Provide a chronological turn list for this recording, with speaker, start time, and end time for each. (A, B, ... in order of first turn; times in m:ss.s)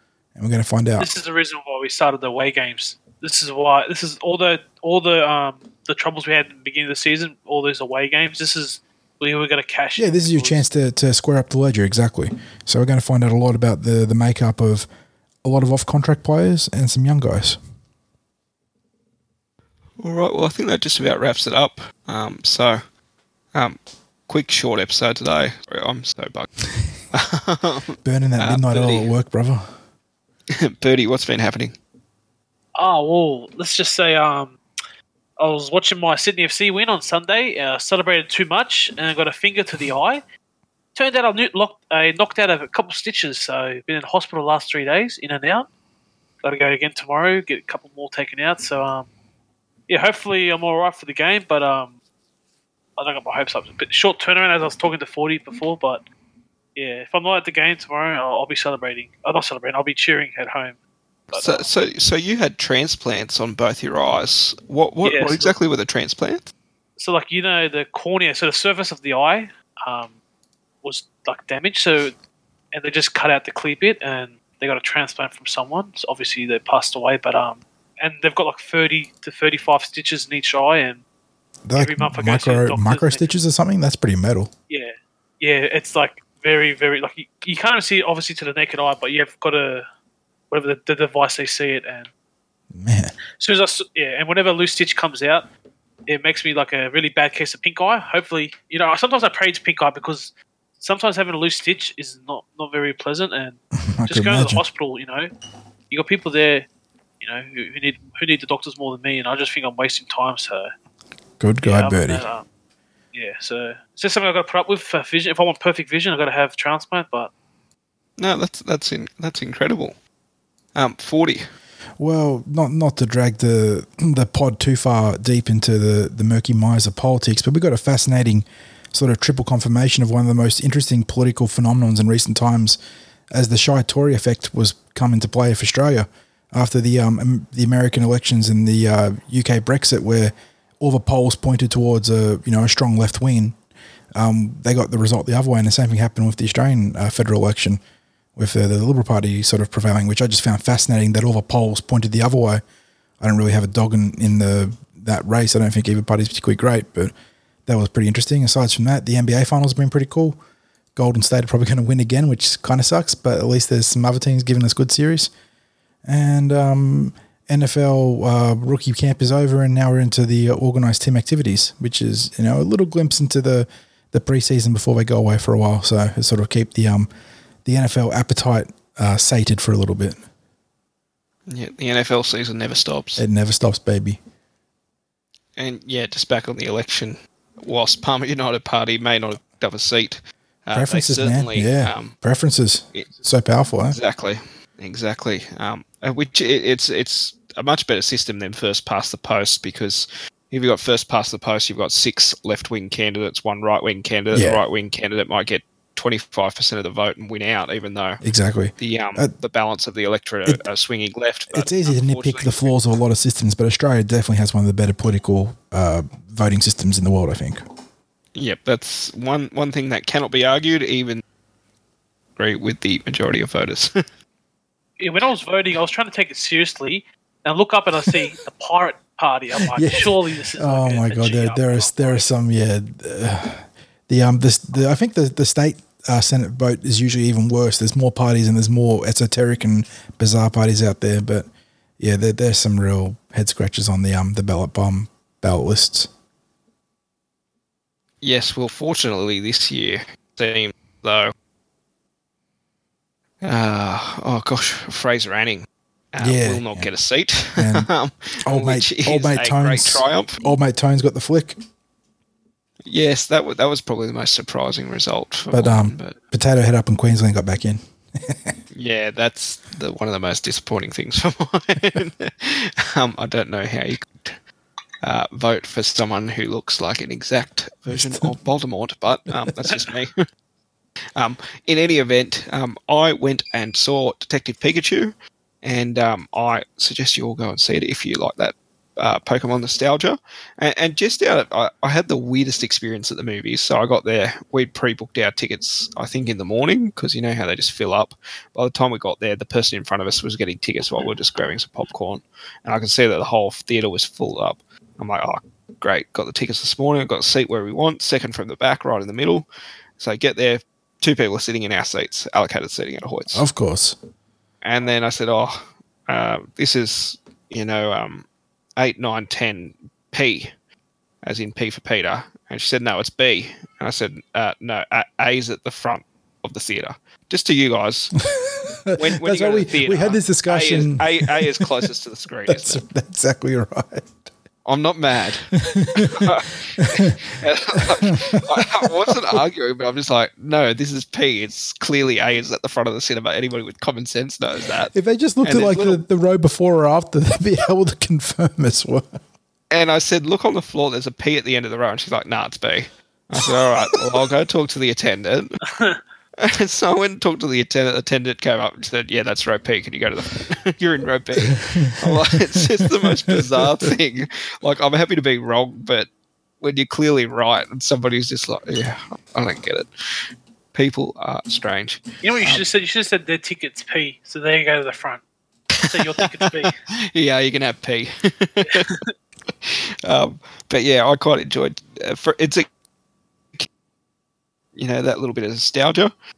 0:00.4-0:01.1 A
0:01.0-0:10.6 B
0:10.0-0:14.9 A
0:15.4-0:17.6 A
0:20.0-0:22.8 C
0:23.5-0:26.5 C
0:27.1-0:29.1 C
0:28.0-0:29.8 A
0:30.6-0:31.8 C
0:32.8-0:34.6 B
0:35.4-0:40.2 B
0:41.0-0:45.7 B
0:46.4-0:49.1 B
0:49.9-0:51.9 B
0:53.0-0:56.0 B
0:56.8-1:00.8 B
1:01.3-1:01.7 B
1:01.3-1:06.5 C
1:05.0-1:05.5 B
1:07.0-1:10.1 B
1:10.8-1:12.1 B
1:12.7-1:21.0 B
1:21.7-1:24.5 A
1:21.8-1:23.4 B
1:24.7-1:29.9 B
1:30.5-1:32.1 B
1:32.7-1:33.2 A
1:33.4-1:35.5 B
1:36.1-1:45.3 B
1:43.9-1:44.6 A
1:45.9-1:46.7 B
1:47.2-1:50.7 B
1:51.4-1:52.2 A
1:51.6-1:52.4 B
1:53.1-1:57.3 B
1:58.2-2:00.0 C
2:00.8-2:01.5 C
2:02.0-2:12.8 A
2:13.3-2:23.6 A
2:24.2-2:27.8 A
2:28.4-2:32.6 A
2:33.2-2:37.1 A
2:37.7-2:40.4 A
2:41.0-2:45.3 A
2:46.0-2:57.1 A
2:57.6-3:00.2 A
3:01.5-3:03.2 C
3:03.2-3:04.2 A
3:05.6-3:12.2 C
3:10.7-3:14.0 A
3:13.9-3:28.2 C
3:24.3-3:24.6 A
3:28.2-3:29.3 A
3:28.8-3:32.7 C
3:31.5-3:37.6 A
3:38.4-3:41.2 C
3:42.4-3:44.0 C
3:45.0-3:52.3 B
3:49.6-4:01.5 A
4:02.0-4:06.1 A
4:08.2-4:11.3 C
4:13.4-4:20.5 C
4:16.2-4:16.9 A
4:17.6-4:17.9 A
4:18.5-4:21.6 A
4:22.9-4:26.2 C
4:25.5-4:28.6 A
4:28.7-4:34.4 C
4:35.0-4:40.2 C
4:37.9-4:38.3 A
4:41.2-5:09.5 C
5:10.0-5:13.5 C
5:13.3-5:14.0 A
5:14.6-5:18.3 C
5:18.8-5:20.5 C
5:21.2-5:28.2 C
5:28.3-5:31.8 A
5:28.9-5:32.8 C
5:32.5-5:34.3 A
5:34.6-5:46.0 C
5:35.7-5:36.3 A
5:36.8-5:37.2 A
5:38.0-5:39.2 A
5:44.9-5:49.2 A
5:49.7-5:55.6 C
5:55.7-5:56.0 B
5:56.4-6:06.1 C
6:01.6-6:02.2 A
6:06.6-6:09.9 C
6:10.7-6:12.6 C
6:12.2-6:15.2 B
6:15.8-6:19.0 C
6:15.8-6:16.8 B
6:19.6-6:22.7 C
6:24.8-6:26.1 C